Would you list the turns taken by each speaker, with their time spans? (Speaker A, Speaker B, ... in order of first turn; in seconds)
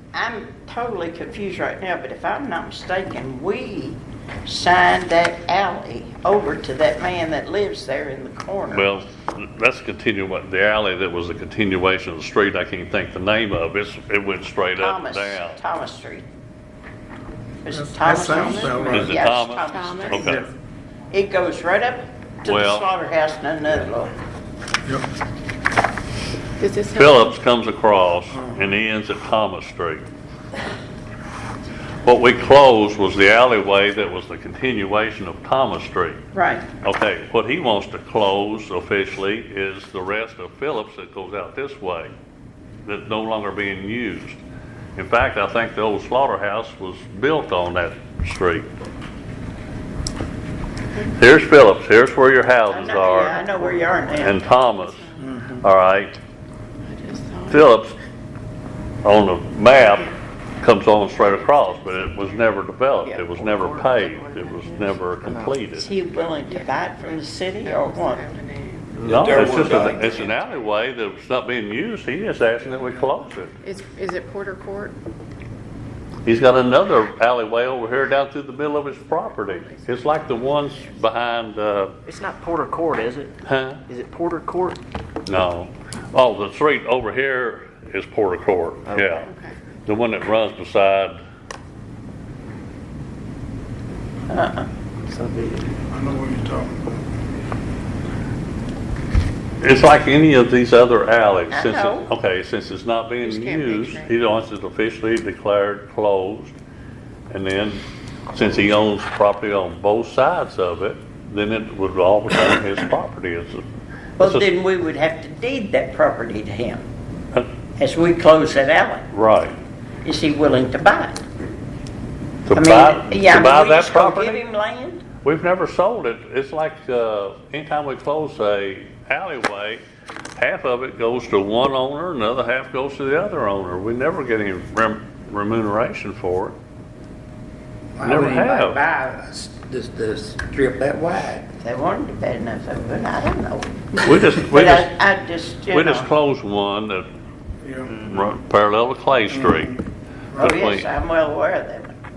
Speaker A: 0.1-8.9, 14.8-16.2, 17.6-20.4, 21.1-24.1, 36.3-36.7, 52.7-54.4, 65.8-68.2, 94.3-94.7, 101.5-102.1, 114.2-116.8, 117.8-119.1, 120.0-121.2, 122.5-125.0, 141.6-146.1, 150.4-151.9
Speaker B: 8.7-15.6, 18.9-20.4, 22.4-22.9, 26.9-30.1, 32.0-36.2, 36.8-42.1, 42.8-44.4, 45.0-48.7, 51.1-53.5, 54.2-56.1, 57.5-58.0, 59.0-65.9, 69.0-73.5, 76.2-82.0, 83.4-83.8, 85.3-89.3, 89.8-91.2, 99.6-106.6, 107.3-113.6, 114.2-114.5, 119.1-119.6, 122.5-124.4, 125.2-129.8, 130.4-136.6, 138.0-138.8, 144.0-144.9, 145.7-147.1, 147.9-149.8, 150.4-150.9
Speaker C: 17.7-19.2, 20.2-20.5, 95.8-97.0, 147.6-148.0, 149.3-149.8, 150.3-150.6
Speaker D: 19.2-20.3, 26.6-27.4, 53.6-55.3, 56.8-57.6, 59.9-60.1, 61.1-62.5, 66.4-70.4, 73.6-75.0, 79.5-80.8, 89.2-89.6, 103.2-104.1
Speaker E: 63.2-65.7, 82.0-83.3, 83.9-84.8, 88.9-89.2, 95.1-95.7
Speaker F: 69.2-69.9, 138.0-141.4